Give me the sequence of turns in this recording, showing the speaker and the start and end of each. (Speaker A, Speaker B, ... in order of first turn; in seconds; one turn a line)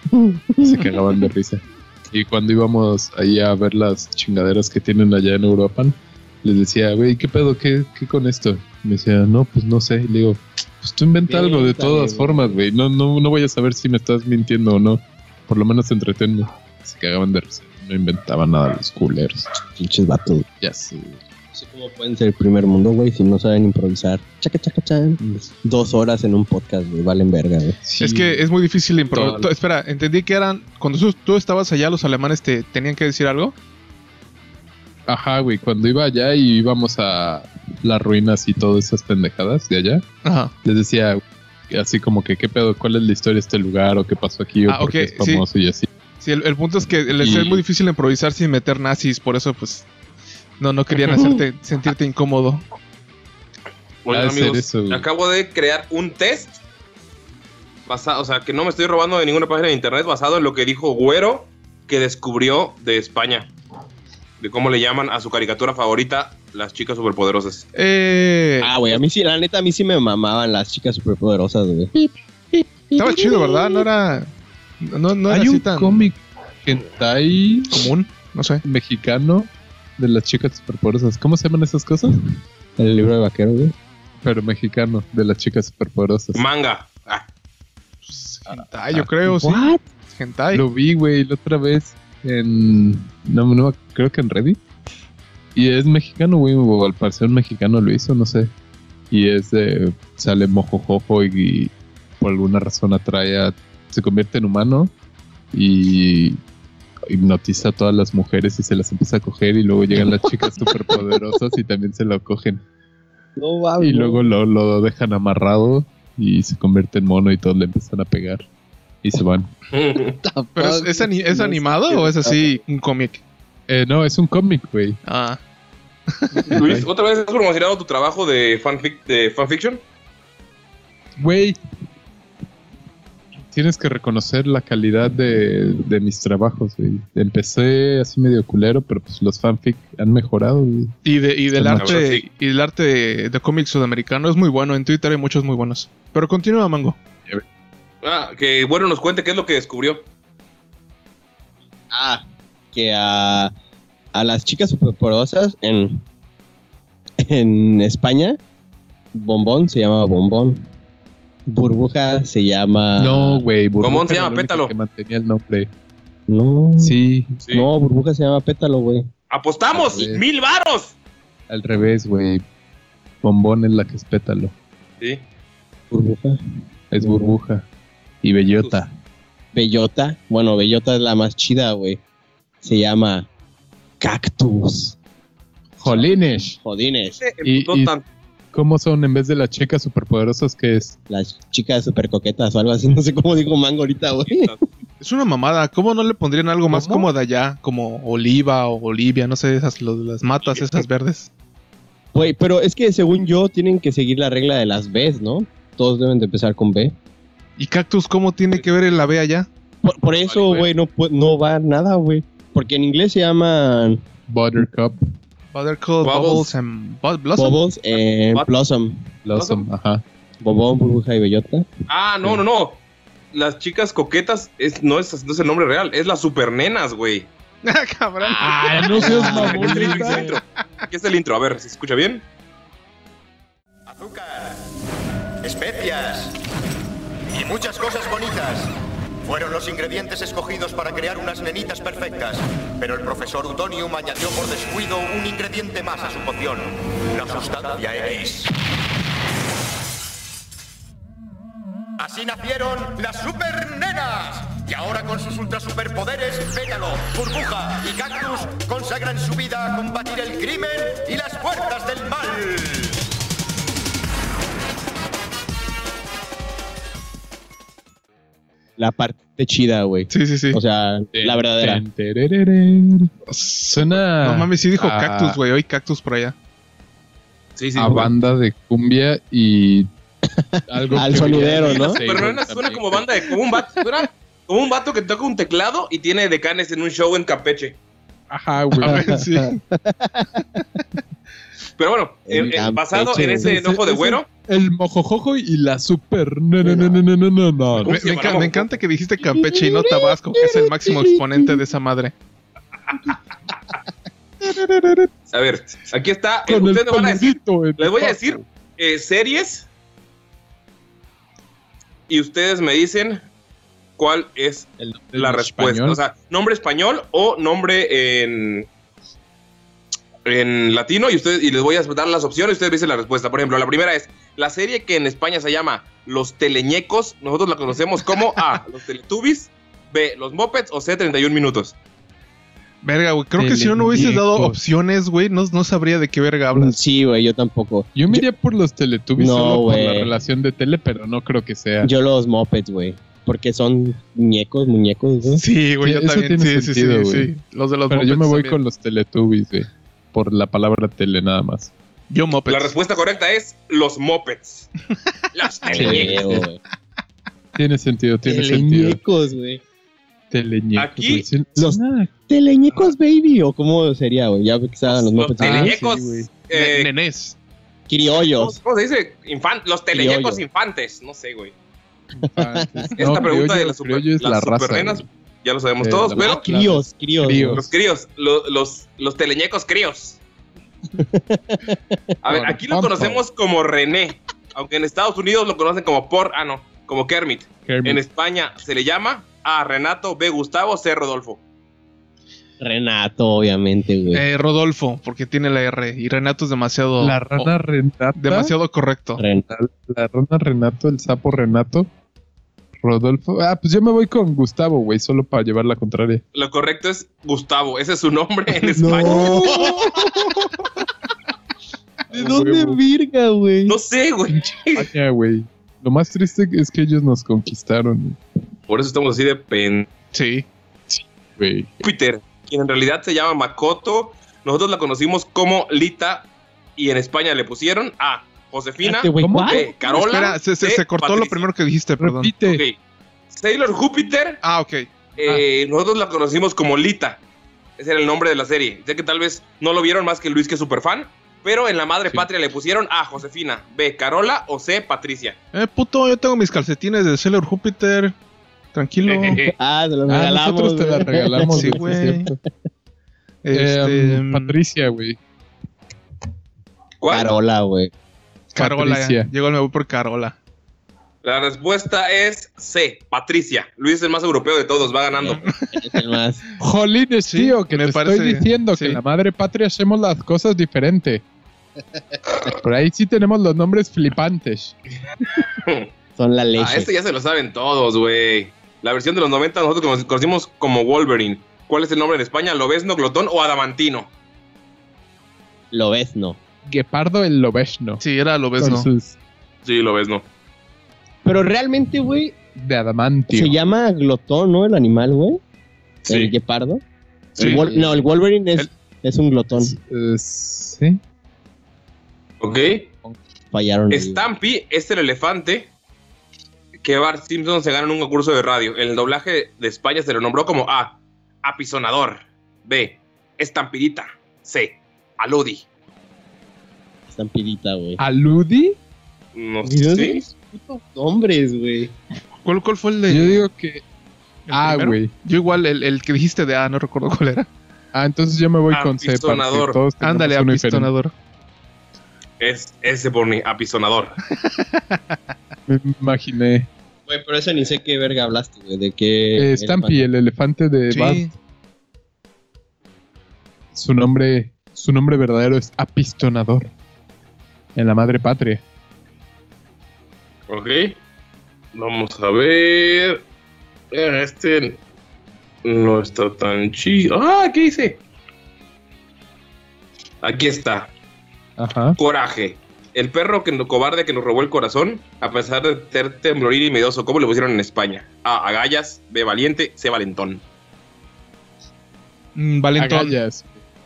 Speaker A: 0.1-1.0
Speaker B: 0.6-19.5
Speaker A: 11.3-12.6
Speaker A: 19.7-20.5
Speaker B: 20.6-21.2
Speaker A: 21.5-27.8
Speaker B: 27.8-28.4
Speaker C: 28.0-33.5
Speaker B: 29.1-29.4
Speaker B: 35.1-40.0
Speaker C: 40.2-40.5
Speaker B: 40.6-45.9
Speaker C: 44.7-45.5
Speaker C: 46.2-49.9
Speaker B: 47.2-47.6
Speaker C: 50.6-52.6
Speaker D: 54.0-56.6
Speaker B: 54.1-55.1
Speaker D: 57.9-63.5
Speaker D: 64.4-67.7
Speaker C: 67.8-69.0
Speaker A: 68.6-71.9
Speaker A: 72.9-73.8
Speaker C: 72.9-74.3
Speaker C: 74.8-76.1
Speaker B: 75.3-77.9
Speaker C: 77.7-78.6
Speaker B: 78.6-82.2
Speaker A: 82.8-83.8
Speaker B: 84.2-86.4
Speaker D: 86.3-87.3
Speaker C: 88.0-90.6
Speaker A: 89.2-89.8
Speaker B: 90.5-94.6
Speaker B: 95.5-98.5
Speaker B: 99.1-104.9
Speaker B: 105.5-106.4
Speaker B: 107.1-112.6
Speaker A: 110.2-110.9
Speaker A: 113.4-114.3
Speaker B: 113.8-118.5
Speaker B: 119.0-119.5
Speaker D: 119.7-120.2
Speaker A: 120.2-122.6
Speaker C: 120.5-123.2
Speaker B: 123.7-125.0
Speaker C: 125.1-125.4
Speaker C: 126.1-126.6
Speaker D: 126.5-129.8
Speaker B: 126.6-126.9
Speaker B: 131.2-131.6
Speaker B: 133.5-140.9
Speaker C: 141.1-147.0
Speaker B: 141.5-142.0
Speaker D: 141.8-142.2
Speaker D: 148.0-150.1
Speaker A: 151.9-153.5
Speaker A: 154.1-156.0
Speaker A: 157.2-158.4
Speaker A: 159.1-160.7
Speaker A: 161.5-163.4
Speaker B: 163.0-165.7
Speaker D: 163.8-164.7
Speaker A: 166.3-167.0
Speaker B: 166.8-167.3
Speaker A: 167.5-169.1
Speaker D: 169.3-170.9
Speaker B: 169.7-170.2
Speaker B: 171.5-172.4
Speaker B: 173.2-174.5
Speaker A: 175.9-176.4
Speaker B: 176.9-177.7
Speaker A: 177.0-177.4
Speaker B: 178.2-178.9
Speaker A: 179.5-182.0
Speaker A: 182.6-183.3
Speaker A: 184.0-185.0
Speaker B: 185.8-186.6
Speaker A: 185.8-187.2
Speaker D: 187.2-188.1
Speaker B: 187.4-187.9
Speaker B: 188.5-191.0
Speaker A: 191.1-194.5
Speaker D: 194.3-194.7
Speaker C: 195.0-201.3
Speaker B: 196.7-197.0
Speaker D: 200.5-200.8
Speaker A: 202.2-206.9
Speaker C: 207.6-209.5
Speaker A: 209.8-214.0
Speaker D: 210.3-210.7
Speaker B: 214.3-215.0
Speaker C: 215.5-217.7
Speaker D: 216.0-216.5
Speaker A: 217.4-219.1
Speaker B: 219.2-220.0
Speaker D: 219.3-219.7
Speaker A: 220.4-221.7
Speaker D: 221.9-222.8
Speaker D: 223.3-227.3
Speaker C: 227.6-230.3
Speaker B: 228.2-230.4
Speaker A: 229.0-229.8
Speaker D: 229.0-232.2
Speaker E: 233.9-234.7
Speaker E: 235.4-236.4
Speaker E: 237.3-238.7
Speaker E: 239.2-248.5
Speaker E: 252.0-263.0
Speaker A: 268.8-271.8
Speaker C: 270.1-270.6
Speaker B: 271.1-273.1
Speaker C: 273.3-276.4
Speaker B: 273.7-275.4
Speaker D: 277.6-278.1
Speaker B: 277.8-279.9
Speaker A: 280.3-282.0
Speaker B: 280.7-283.1
Speaker D: 281.2-287.8
Speaker B: 288.3-289.2
Speaker C: 288.8-289.6
Speaker A: 288.9-290.6
Speaker D: 291.8-294.3
Speaker A: 292.3-293.6
Speaker B: 292.4-292.6
Speaker B: 293.4-298.0
Speaker A: 296.6-296.9
Speaker C: 297.8-302.1
Speaker D: 297.9-298.7
Speaker A: 299.2-301.5
Speaker B: 304.5-305.1
Speaker D: 305.3-309.7
Speaker B: 306.5-308.4
Speaker D: 312.1-313.2
Speaker D: 314.0-318.7
Speaker B: 314.8-316.0
Speaker D: 320.2-331.8
Speaker C: 332.8-336.8
Speaker B: 333.4-334.6
Speaker A: 336.5-338.3
Speaker B: 337.9-341.9
Speaker A: 339.2-340.1
Speaker A: 341.8-345.4
Speaker C: 345.3-348.6
Speaker B: 345.8-347.3
Speaker B: 347.9-351.7
Speaker C: 352.1-352.8
Speaker D: 352.5-354.7
Speaker D: 355.3-356.3
Speaker A: 355.7-356.6
Speaker B: 355.8-356.5
Speaker B: 357.6-359.0
Speaker A: 358.2-359.6
Speaker B: 360.3-362.1
Speaker D: 360.8-361.3
Speaker A: 361.6-365.8
Speaker D: 365.1-366.9
Speaker B: 365.4-366.3
Speaker C: 366.5-367.4
Speaker A: 367.9-368.6
Speaker D: 368.1-371.5
Speaker A: 369.9-370.4
Speaker B: 372.1-375.1
Speaker A: 372.2-372.9
Speaker D: 373.0-376.4
Speaker B: 375.8-377.7
Speaker A: 376.2-377.6
Speaker D: 377.5-380.2
Speaker A: 381.0-382.1
Speaker D: 382.2-391.4
Speaker B: 382.3-383.2
Speaker B: 387.7-388.0
Speaker A: 392.6-394.2
Speaker C: 394.1-397.5
Speaker B: 397.0-398.5
Speaker C: 398.2-399.2
Speaker A: 399.2-399.5
Speaker B: 399.5-401.9
Speaker B: 402.8-406.2
Speaker D: 406.3-409.7
Speaker A: 408.8-410.4
Speaker B: 412.1-412.8
Speaker A: 412.1-413.7
Speaker D: 413.7-414.9
Speaker B: 414.8-418.2
Speaker D: 418.7-419.9
Speaker C: 420.1-420.5
Speaker B: 420.9-421.7
Speaker D: 421.8-431.5
Speaker A: 428.8-429.7
Speaker B: 429.2-429.7
Speaker C: 429.9-432.4
Speaker B: 432.0-432.6
Speaker D: 432.5-432.8
Speaker D: 433.3-434.4
Speaker C: 434.4-434.9
Speaker D: 435.2-437.2
Speaker D: 437.8-445.4
Speaker C: 445.5-448.1
Speaker C: 448.7-449.4
Speaker D: 449.1-449.5
Speaker A: 449.3-451.8
Speaker B: 450.1-452.4
Speaker C: 451.5-452.3
Speaker C: 453.4-454.6
Speaker B: 453.5-455.2
Speaker D: 457.0-457.3
Speaker A: 457.1-457.9
Speaker C: 458.5-460.4
Speaker B: 458.6-459.3
Speaker D: 461.2-465.4
Speaker A: 465.2-466.4
Speaker B: 466.6-471.2
Speaker C: 467.3-469.0
Speaker B: 472.6-474.8
Speaker D: 475.6-475.9
Speaker A: 476.2-476.9
Speaker D: 476.6-484.1
Speaker A: 485.7-486.4
Speaker B: 486.7-488.0
Speaker C: 488.0-488.9
Speaker B: 488.6-489.2
Speaker D: 489.6-490.2
Speaker A: 491.2-492.4
Speaker B: 492.6-493.6
Speaker A: 493.3-495.4
Speaker D: 496.1-496.3
Speaker A: 496.1-496.8
Speaker A: 497.4-499.7
Speaker C: 497.4-497.7
Speaker B: 499.6-501.0
Speaker D: 502.4-502.9
Speaker A: 503.5-504.3
Speaker D: 503.9-505.7
Speaker D: 506.8-515.7
Speaker A: 517.1-518.0
Speaker B: 518.0-518.8
Speaker D: 519.4-520.2
Speaker A: 519.6-521.9
Speaker B: 520.5-520.8
Speaker C: 522.4-523.4
Speaker B: 523.1-523.8
Speaker C: 524.5-527.5
Speaker B: 524.5-525.1
Speaker B: 527.9-530.9
Speaker D: 528.7-529.8
Speaker C: 530.0-531.1
Speaker D: 532.4-534.2
Speaker C: 534.3-535.2
Speaker B: 535.7-536.7
Speaker A: 537.1-540.0
Speaker B: 539.4-541.3
Speaker C: 540.9-541.3
Speaker B: 543.7-546.7
Speaker B: 547.8-548.6
Speaker D: 550.5-551.0
Speaker D: 551.8-553.2
Speaker D: 553.9-554.8
Speaker D: 555.6-558.0
Speaker D: 560.2-560.9
Speaker B: 561.6-562.0
Speaker D: 562.0-570.4
Speaker C: 572.4-573.2
Speaker B: 572.8-573.6